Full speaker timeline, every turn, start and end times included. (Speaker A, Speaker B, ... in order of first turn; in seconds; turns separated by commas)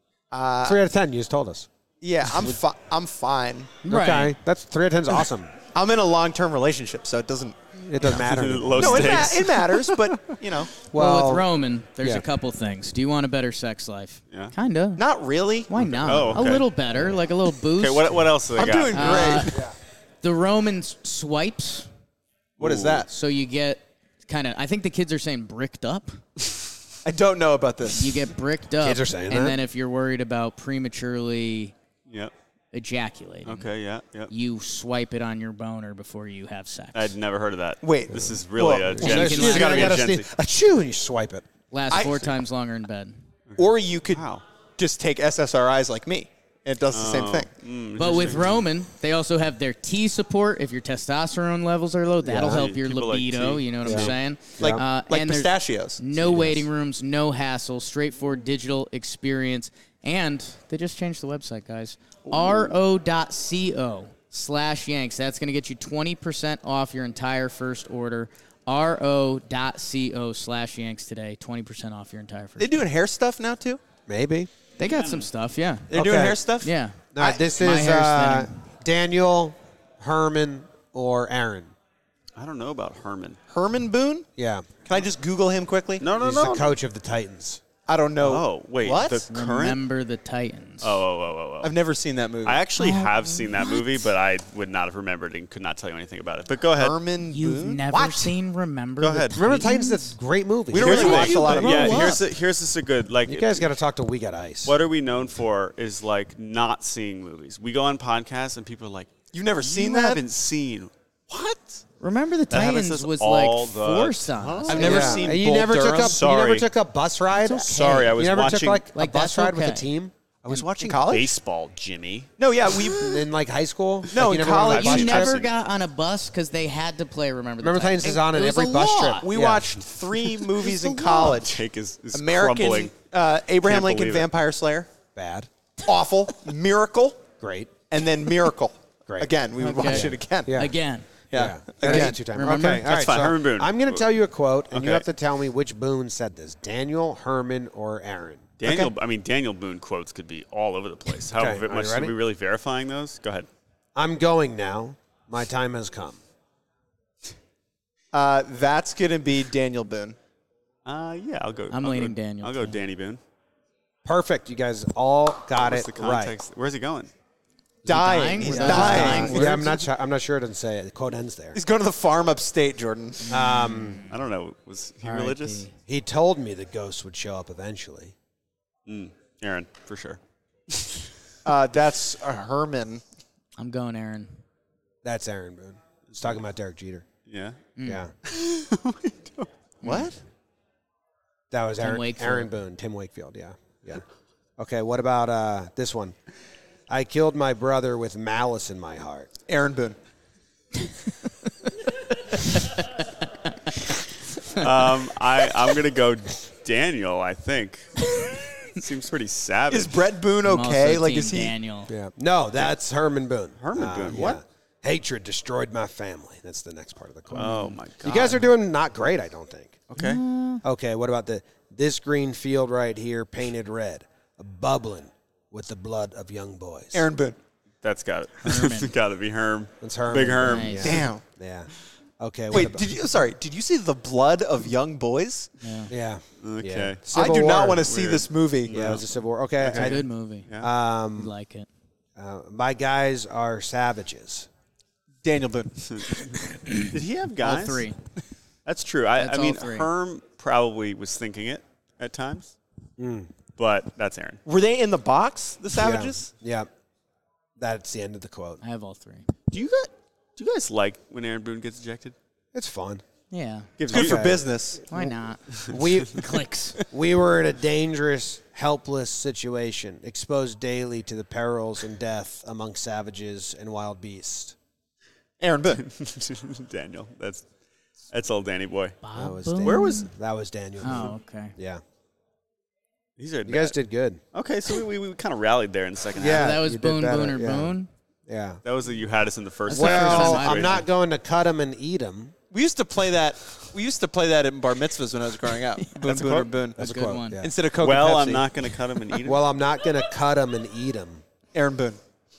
Speaker A: 0.3-0.8, Speaker B: 0.6-1.7, Speaker A: 2.0-3.8, Speaker C: 3.8-4.3, Speaker B: 3.9-5.5, Speaker A: 5.7-7.6, Speaker B: 7.7-9.4, Speaker D: 8.0-10.3, Speaker A: 8.7-10.7, Speaker B: 10.9-11.4, Speaker C: 10.9-15.0, Speaker B: 12.0-12.2, Speaker A: 15.0-16.3, Speaker C: 15.7-18.2, Speaker D: 15.8-16.6, Speaker D: 17.8-19.6, Speaker A: 18.5-19.6, Speaker C: 18.9-19.6, Speaker C: 20.2-21.9, Speaker D: 22.6-23.1, Speaker A: 22.6-23.1, Speaker C: 23.1-26.2, Speaker A: 27.0-28.2, Speaker C: 27.9-31.7, Speaker B: 28.8-29.6, Speaker D: 32.1-32.3, Speaker C: 32.7-33.7, Speaker D: 33.5-34.3, Speaker C: 34.3-37.1, Speaker D: 36.9-40.3, Speaker A: 37.8-39.1, Speaker B: 38.9-41.4, Speaker C: 39.0-40.0, Speaker C: 41.7-43.2, Speaker A: 41.9-42.3, Speaker D: 43.5-44.4, Speaker A: 43.6-44.2, Speaker A: 44.8-47.5, Speaker D: 46.9-48.6, Speaker C: 48.0-72.8, Speaker B: 52.2-52.7, Speaker D: 52.4-54.1, Speaker B: 53.8-54.8, Speaker A: 54.6-56.6, Speaker A: 62.3-62.7, Speaker A: 72.6-73.8, Speaker B: 74.1-74.5, Speaker C: 74.8-75.9, Speaker D: 74.8-75.2, Speaker A: 75.9-77.4, Speaker B: 75.9-76.4, Speaker C: 76.6-78.5, Speaker B: 77.1-81.7, Speaker D: 82.3-83.4, Speaker A: 83.5-84.2, Speaker B: 84.4-84.7, Speaker A: 84.8-86.0, Speaker D: 86.0-86.8, Speaker B: 86.2-87.6, Speaker A: 87.9-89.2, Speaker D: 88.2-89.8, Speaker C: 89.3-91.0, Speaker D: 90.8-91.8, Speaker A: 91.6-92.6, Speaker D: 92.4-97.0, Speaker C: 92.8-93.9, Speaker A: 96.8-98.3, Speaker C: 97.3-100.1, Speaker D: 99.0-99.4, Speaker B: 99.3-101.3, Speaker A: 100.7-102.2, Speaker C: 100.7-102.3, Speaker D: 100.8-103.7, Speaker B: 103.2-104.8, Speaker D: 104.6-111.8, Speaker A: 109.3-110.2, Speaker C: 112.0-115.2, Speaker D: 112.5-115.3, Speaker A: 114.7-116.2, Speaker B: 114.8-120.1, Speaker D: 116.0-116.7, Speaker C: 117.3-118.3, Speaker D: 117.7-118.8, Speaker C: 118.9-119.9, Speaker D: 120.4-122.9, Speaker A: 120.8-121.4, Speaker A: 122.4-123.2, Speaker B: 123.0-125.3, Speaker A: 124.1-125.4, Speaker D: 124.7-125.5, Speaker C: 124.7-129.2, Speaker B: 127.6-129.7, Speaker A: 128.3-131.6, Speaker D: 130.1-132.9, Speaker A: 132.1-134.9, Speaker D: 133.6-134.3, Speaker B: 135.1-135.5, Speaker A: 135.8-137.2, Speaker B: 137.4-137.7, Speaker A: 137.9-140.6, Speaker B: 139.1-140.7, Speaker C: 139.6-141.1, Speaker A: 141.3-142.2, Speaker B: 141.3-148.5, Speaker C: 141.8-142.9, Speaker D: 142.7-144.1, Speaker D: 144.7-145.0, Speaker D: 148.6-153.5, Speaker B: 151.3-152.1, Speaker B: 153.9-156.2, Speaker A: 158.1-160.2, Speaker D: 160.8-163.2, Speaker C: 161.7-162.8, Speaker B: 164.0-166.3, Speaker D: 165.6-167.1, Speaker C: 167.8-169.4, Speaker A: 167.8-169.8, Speaker B: 168.4-171.6, Speaker D: 168.5-169.5, Speaker A: 171.5-173.3, Speaker C: 173.3-174.1, Speaker B: 173.3-174.0, Speaker D: 174.1-175.6, Speaker C: 175.0-175.7, Speaker B: 175.9-178.1, Speaker D: 178.9-181.1, Speaker A: 181.4-183.0, Speaker C: 183.6-184.3, Speaker B: 185.0-187.1, Speaker D: 187.3-187.6, Speaker C: 187.8-188.0, Speaker B: 187.8-188.1, Speaker D: 188.2-189.5, Speaker A: 189.8-190.2, Speaker B: 191.5-194.0, Speaker C: 191.8-192.5, Speaker B: 194.6-196.1, Speaker B: 196.9-199.3, Speaker A: 199.5-200.0, Speaker C: 202.3-203.5, Speaker D: 204.4-210.1, Speaker A: 209.7-211.5, Speaker C: 210.4-211.9, Speaker B: 211.9-219.8, Speaker D: 213.6-214.4, Speaker D: 217.3-218.4, Speaker C: 217.3-217.7, Speaker D: 219.9-220.2, Speaker C: 219.9-220.6, Speaker B: 220.6-227.1, Speaker A: 226.9-227.4, Speaker D: 227.8-231.1, Speaker C: 228.4-228.9, Speaker B: 229.8-232.9, Speaker C: 230.4-231.0, Speaker A: 230.8-231.2, Speaker A: 232.5-235.5, Speaker C: 235.6-235.9, Speaker B: 235.9-237.9, Speaker D: 236.4-239.0, Speaker A: 237.1-239.0, Speaker B: 238.7-240.0, Speaker D: 239.6-240.7, Speaker C: 239.7-240.5, Speaker B: 240.6-241.3, Speaker C: 241.2-241.7, Speaker B: 242.2-244.5, Speaker A: 245.2-246.0, Speaker D: 245.9-247.8, Speaker C: 247.4-248.0, Speaker D: 248.6-252.5, Speaker C: 249.2-249.9, Speaker B: 253.0-253.3, Speaker D: 253.6-254.4, Speaker A: 254.4-256.3, Speaker B: 255.7-256.7, Speaker B: 257.6-258.6, Speaker C: 258.6-259.3, Speaker D: 259.5-262.1, Speaker B: 262.5-263.0, Speaker C: 263.3-263.8, Speaker A: 263.8-264.8, Speaker D: 263.9-264.2, Speaker B: 263.9-265.1, Speaker C: 264.9-266.8, Speaker D: 265.5-265.8, Speaker B: 265.7-274.5, Speaker A: 275.4-275.8, Speaker D: 275.8-277.4, Speaker D: 278.1-279.0, Speaker C: 279.0-280.1, Speaker B: 279.1-281.8, Speaker D: 279.6-280.1, Speaker C: 280.8-281.6, Speaker D: 283.2-283.8, Speaker B: 283.4-284.2, Speaker D: 284.3-286.6, Speaker B: 286.2-287.8, Speaker C: 286.2-287.9, Speaker B: 288.3-288.6, Speaker D: 288.6-290.8, Speaker C: 289.7-290.8, Speaker B: 289.7-292.3, Speaker A: 292.5-296.8, Speaker D: 296.0-296.5, Speaker C: 296.8-297.4, Speaker B: 296.8-297.5, Speaker A: 297.4-298.5, Speaker D: 297.8-299.4, Speaker B: 299.2-301.2, Speaker A: 301.5-302.0